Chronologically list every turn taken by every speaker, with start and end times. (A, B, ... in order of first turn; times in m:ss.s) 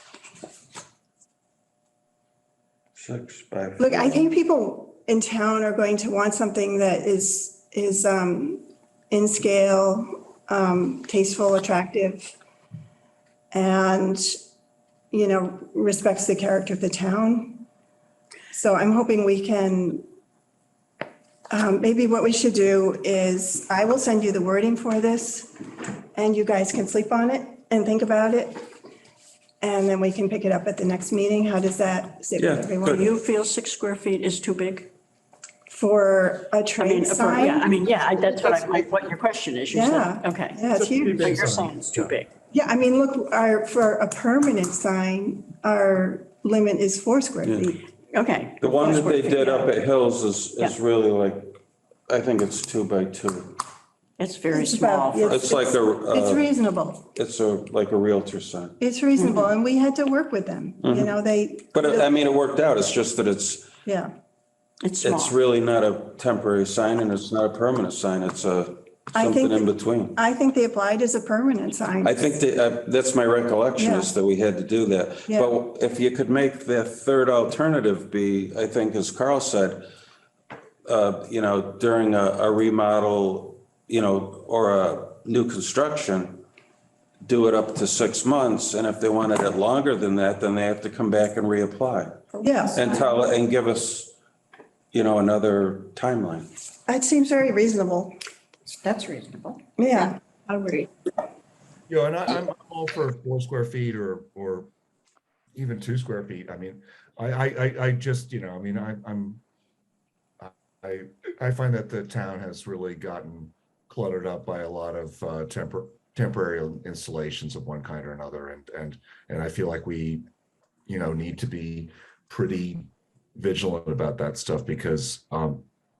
0:02.9-0:04.3 A
0:03.8-0:12.4 B
0:13.5-0:14.3 B
0:15.1-0:17.6 B
0:18.5-0:20.0 B
0:21.5-0:25.5 B
0:26.1-0:28.7 B
0:29.6-0:33.0 B
0:32.4-0:33.0 A
0:32.9-0:34.9 C
0:35.7-0:37.8 B
0:36.8-0:42.3 C
0:39.7-0:41.3 B
0:40.7-0:42.1 D
0:42.5-0:47.8 B
0:47.4-0:47.8 A
0:48.1-0:49.7 C
0:48.6-0:51.6 A
0:52.1-0:53.6 A
0:54.2-0:55.4 C
0:54.5-0:57.0 B
0:55.2-0:56.5 A
0:57.1-0:58.8 A
0:58.8-1:02.1 B
0:59.2-0:59.5 C
1:00.8-1:01.1 A
1:01.7-1:03.7 A
1:03.8-1:04.1 B
1:04.8-1:05.4 C
1:05.0-1:10.2 A
1:09.1-1:12.1 B
1:12.0-1:19.8 A
1:13.8-1:14.1 B
1:15.3-1:15.5 B
1:20.8-1:26.4 A
1:27.2-1:32.2 A
1:32.3-1:33.1 C
1:32.4-1:32.8 B
1:32.7-1:34.1 A
1:34.9-1:36.5 A
1:36.9-1:38.1 B
1:38.7-1:39.6 C
1:39.8-1:40.2 B
1:40.5-1:40.9 C
1:41.9-1:44.7 D
1:45.5-1:49.4 D
1:50.4-2:00.2 D
2:00.9-2:05.6 D